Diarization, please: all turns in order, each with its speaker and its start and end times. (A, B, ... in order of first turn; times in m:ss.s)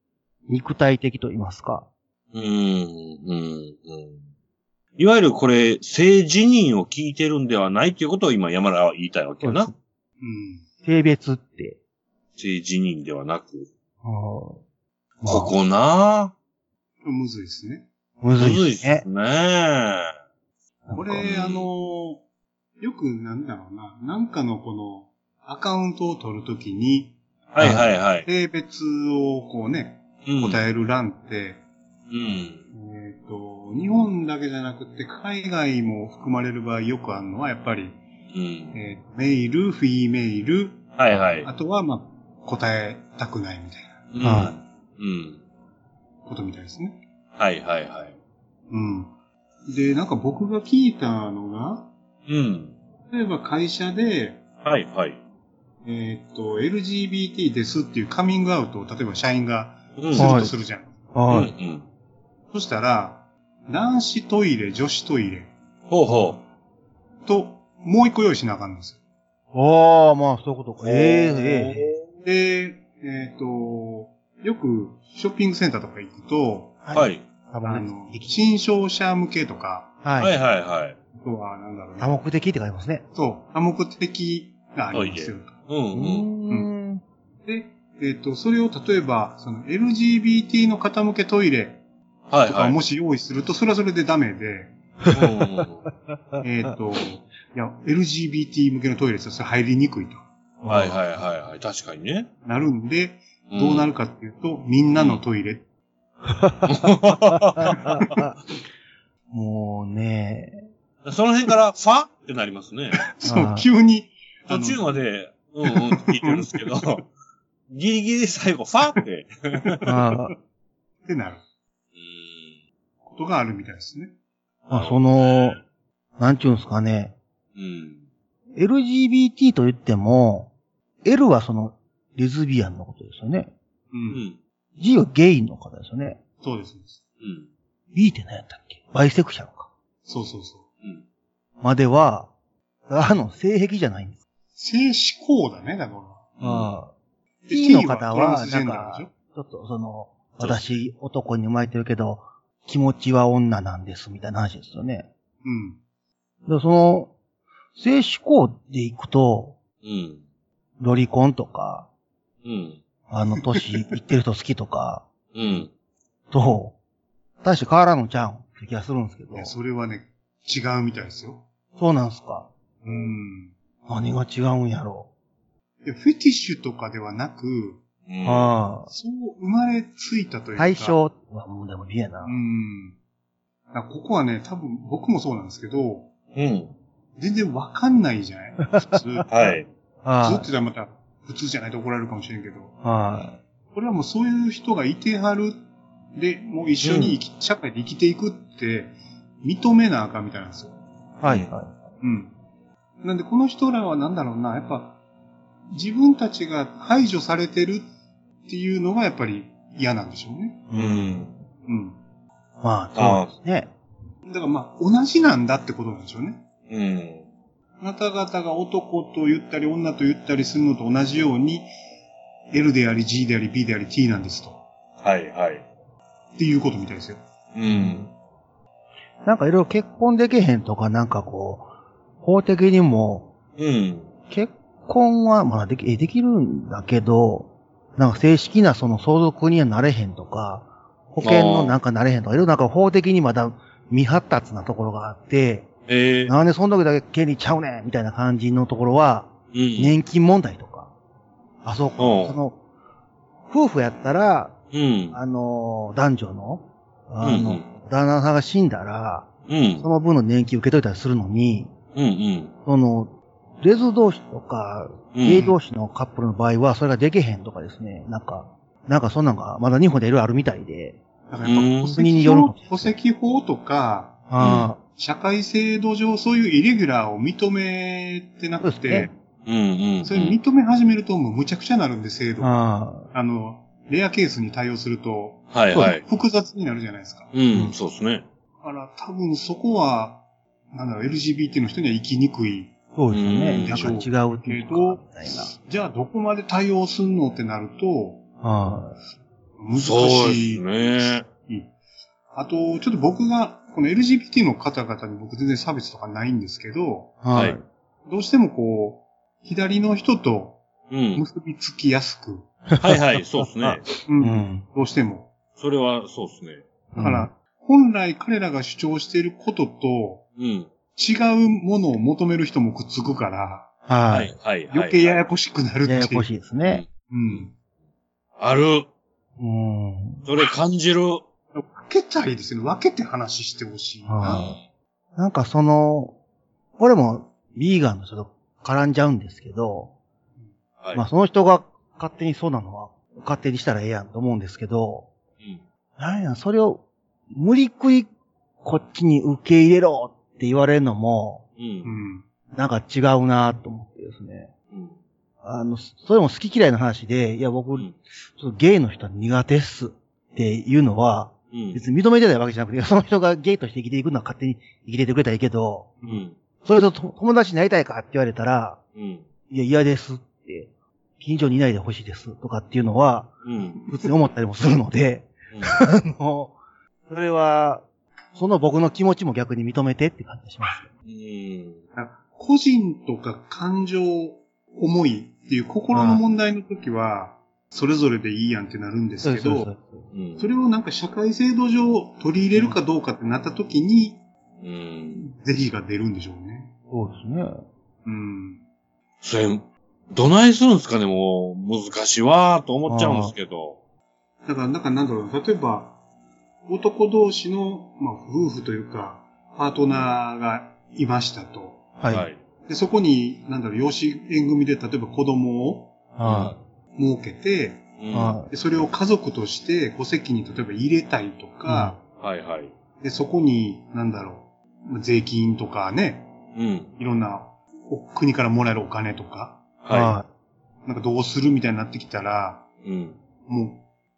0:00.5-0:01.9 A
0:02.3-0:04.2 B
0:05.0-0:09.7 B
0:09.4-0:09.7 A
0:10.2-0:10.6 C
0:10.8-0:11.8 A
0:12.4-0:13.7 B
0:14.0-0:14.6 A
0:15.2-0:15.5 A
0:15.3-0:16.3 B
0:17.0-0:17.9 C
0:18.2-0:19.0 A
0:18.4-0:20.1 B
0:21.0-0:22.2 C
0:21.1-0:21.7 B
0:22.8-0:31.6 C
0:27.5-0:28.3 B
0:27.6-0:27.9 A
0:30.3-0:30.6 B
0:32.1-0:32.6 B
0:32.7-0:38.0 C
0:38.3-0:38.8 B
0:38.7-0:43.9 C
0:41.0-0:41.5 B
0:44.1-0:45.4 B
0:44.2-0:44.6 A
0:46.3-0:47.0 C
0:47.4-0:48.2 B
0:48.7-0:49.1 C
0:49.7-0:51.9 C
0:52.3-0:52.8 B
0:53.1-0:54.4 C
0:54.6-0:55.2 B
0:55.8-1:01.0 C
1:00.0-1:00.4 B
1:00.2-1:00.5 A
1:01.1-1:01.5 A
1:01.3-1:01.9 B
1:02.5-1:05.5 C
1:05.9-1:06.4 B
1:07.2-1:09.0 C
1:09.5-1:11.9 A
1:10.8-1:12.1 B
1:12.2-1:16.8 C
1:16.8-1:18.3 A
1:16.9-1:17.2 B
1:17.6-1:19.9 C
1:20.0-1:20.3 A
1:20.2-1:21.0 B
1:21.2-1:22.2 C
1:22.0-1:23.0 A
1:23.1-1:25.6 C
1:24.9-1:26.3 B
1:25.9-1:27.0 A
1:27.4-1:31.8 C
1:32.3-1:32.8 B
1:32.4-1:34.7 C
1:35.1-1:35.8 B
1:36.4-1:40.3 C
1:40.6-1:41.0 A
1:40.7-1:42.3 B
1:42.4-1:45.6 C
1:43.5-1:43.9 B
1:45.0-1:45.2 B
1:46.3-1:46.7 A
1:46.7-1:48.2 B
1:47.3-1:48.4 A
1:47.7-1:48.0 C
1:49.3-1:50.7 A
1:51.0-1:53.1 B
1:53.1-1:55.0 C
1:53.2-1:53.7 A
1:54.5-1:57.1 B
1:55.7-1:56.6 C
1:57.7-1:59.8 B
1:59.9-2:00.3 A
2:01.1-2:01.4 C
2:02.0-2:02.6 B
2:03.0-2:04.1 C
2:04.7-2:05.6 A
2:04.7-2:05.6 B
2:06.2-2:07.2 A
2:07.6-2:08.0 B
2:08.6-2:10.5 A
2:11.0-2:13.5 A
2:13.9-2:14.2 C
2:14.1-2:14.4 B
2:14.8-2:16.2 A
2:16.4-2:17.0 C
2:17.2-2:17.5 B
2:17.9-2:19.7 A
2:20.1-2:20.7 C
2:21.6-2:22.3 A
2:22.9-2:24.2 A
2:24.6-2:26.3 C
2:26.4-2:26.8 B
2:26.4-2:26.9 A
2:27.5-2:29.1 C
2:27.5-2:35.1 A
2:30.4-2:30.8 B
2:35.4-2:35.8 C
2:36.5-2:37.1 A
2:37.8-2:39.6 A
2:39.8-2:40.2 B
2:40.8-2:41.9 A
2:42.4-2:42.8 B
2:43.1-2:45.0 A
2:45.3-2:45.7 B
2:46.3-2:46.8 A
2:47.4-2:49.5 A
2:49.3-2:51.4 C
2:51.8-2:52.9 A
2:52.8-2:53.5 C
2:53.9-2:55.1 A
2:55.8-2:57.8 C
2:58.1-2:58.6 B
2:58.2-2:58.9 A
2:58.9-3:01.0 C
3:00.6-3:02.4 A
3:02.2-3:03.0 C
3:03.7-3:06.1 C
3:06.3-3:06.8 B
3:07.2-3:09.3 C
3:08.7-3:10.5 A
3:09.3-3:09.7 B
3:10.2-3:12.8 C
3:12.8-3:13.4 A
3:13.7-3:15.6 C
3:16.1-3:20.8 C
3:16.8-3:17.2 B
3:21.2-3:21.8 A
3:21.3-3:21.5 B
3:22.0-3:22.3 C
3:23.0-3:25.0 C
3:25.7-3:27.9 C
3:28.5-3:30.6 C
3:30.7-3:31.3 A
3:30.8-3:31.3 B
3:31.6-3:32.0 C
3:32.6-3:33.7 A
3:33.0-3:33.3 B
3:34.3-3:36.4 C
3:36.7-3:37.3 B
3:37.8-3:41.7 C
3:42.5-3:44.6 C
3:45.0-3:45.6 B
3:46.4-3:47.2 C
3:47.5-3:48.1 B
3:47.7-3:48.1 A
3:49.2-3:51.7 A
3:52.2-3:53.3 A
3:53.6-3:54.1 B
3:54.3-4:05.7 A
4:01.2-4:01.8 B
4:05.9-4:06.3 B
4:06.3-4:10.9 A
4:09.5-4:10.0 B
4:11.6-4:12.6 A
4:12.0-4:12.4 B
4:13.5-4:14.6 A
4:14.7-4:15.2 B
4:15.1-4:19.3 A
4:17.2-4:17.7 B
4:19.5-4:19.9 B
4:19.8-4:21.7 A
4:22.0-4:22.5 B
4:22.6-4:31.0 A
4:25.1-4:25.5 B
4:25.3-4:25.6 C
4:31.3-4:39.1 C
4:31.4-4:32.0 B
4:31.8-4:32.9 A
4:34.3-4:34.8 A
4:34.4-4:34.7 B
4:38.6-4:39.1 A
4:39.5-4:40.4 B
4:40.0-4:42.5 C
4:42.4-4:43.1 A
4:43.1-4:47.3 C
4:45.5-4:46.0 B
4:47.3-4:48.2 B
4:48.6-4:52.7 C
4:53.0-4:55.5 A
4:53.1-4:54.0 B
4:53.4-4:58.2 C
4:58.4-4:59.0 A
4:59.6-5:01.7 C
4:59.8-5:01.3 B
5:02.3-5:07.2 C
5:07.2-5:07.6 A
5:08.1-5:10.6 C
5:10.9-5:11.2 B
5:11.2-5:12.5 C
5:12.7-5:14.7 A
5:12.8-5:13.8 B
5:14.1-5:15.3 C
5:15.6-5:16.6 B
5:16.9-5:17.3 A
5:17.0-5:20.3 C
5:20.4-5:20.7 B
5:21.0-5:23.7 C
5:23.9-5:24.4 A
5:24.1-5:25.2 B
5:24.7-5:26.3 C
5:25.8-5:26.8 A
5:26.7-5:27.4 B
5:27.1-5:27.5 C
5:28.4-5:28.9 B
5:29.4-5:30.3 A
5:30.2-5:31.2 B
5:31.5-5:34.6 C
5:34.1-5:34.6 A
5:34.2-5:34.6 B
5:35.2-5:36.2 A
5:36.8-5:39.9 A
5:40.9-5:45.1 A
5:46.0-5:48.1 A
5:48.6-5:51.4 A
5:51.6-5:52.0 B
5:51.8-5:52.3 C
5:52.5-5:54.5 A
5:55.4-6:05.9 A
6:01.5-6:01.8 B
6:06.0-6:06.4 B
6:06.6-6:08.8 A
6:09.0-6:09.3 B
6:09.5-6:16.6 A
6:13.4-6:13.8 B
6:15.5-6:15.8 B
6:17.1-6:20.9 A
6:21.1-6:21.8 B
6:22.0-6:29.7 C
6:25.9-6:26.2 A
6:29.2-6:30.0 A
6:30.1-6:30.5 B
6:30.4-6:34.2 C
6:34.6-6:35.3 B
6:35.2-6:36.7 C
6:36.9-6:37.6 A
6:38.0-6:38.6 C
6:39.2-6:43.8 B
6:42.9-6:43.3 A
6:44.4-6:46.0 C
6:46.7-6:51.9 C
6:52.0-6:52.3 A
6:52.1-6:52.4 B
6:52.7-6:56.1 C
6:56.2-6:56.6 A
6:56.2-6:56.6 B
6:57.0-6:58.0 C
6:58.0-6:58.4 B
6:58.1-6:58.5 A
6:58.5-7:02.0 C
7:01.7-7:02.0 A
7:02.2-7:02.7 B
7:03.0-7:06.3 C
7:06.6-7:06.9 B
7:07.0-7:09.6 C
7:09.8-7:10.2 B
7:09.9-7:10.3 A
7:10.8-7:12.7 C
7:12.8-7:13.2 B
7:13.5-7:13.8 C